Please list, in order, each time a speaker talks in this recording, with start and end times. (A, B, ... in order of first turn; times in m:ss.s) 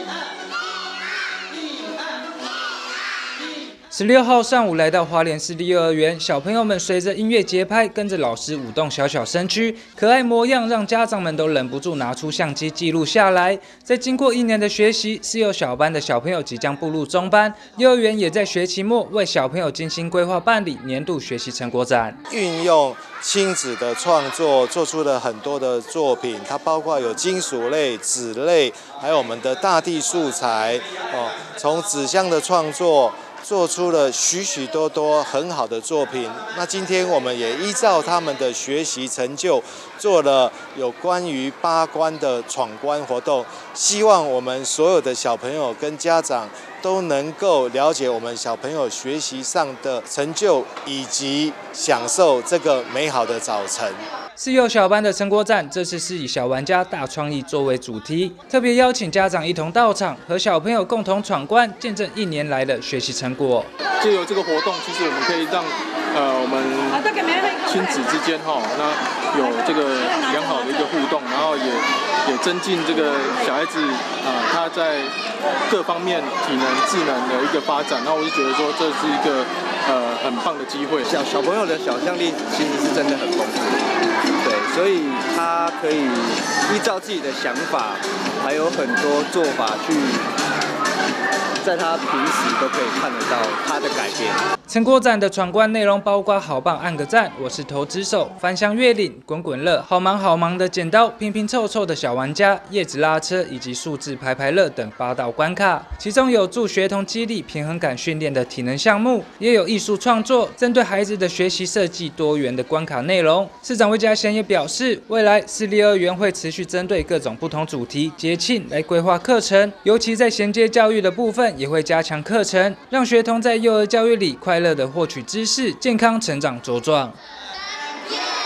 0:03.9-0:22.2 A
0:22.3-0:54.0 B
0:54.4-1:03.7 A
1:04.0-1:15.1 C
1:15.7-1:21.0 C
1:21.0-1:23.9 D
1:24.4-1:30.3 D
1:31.6-1:34.4 D
1:34.7-2:07.2 A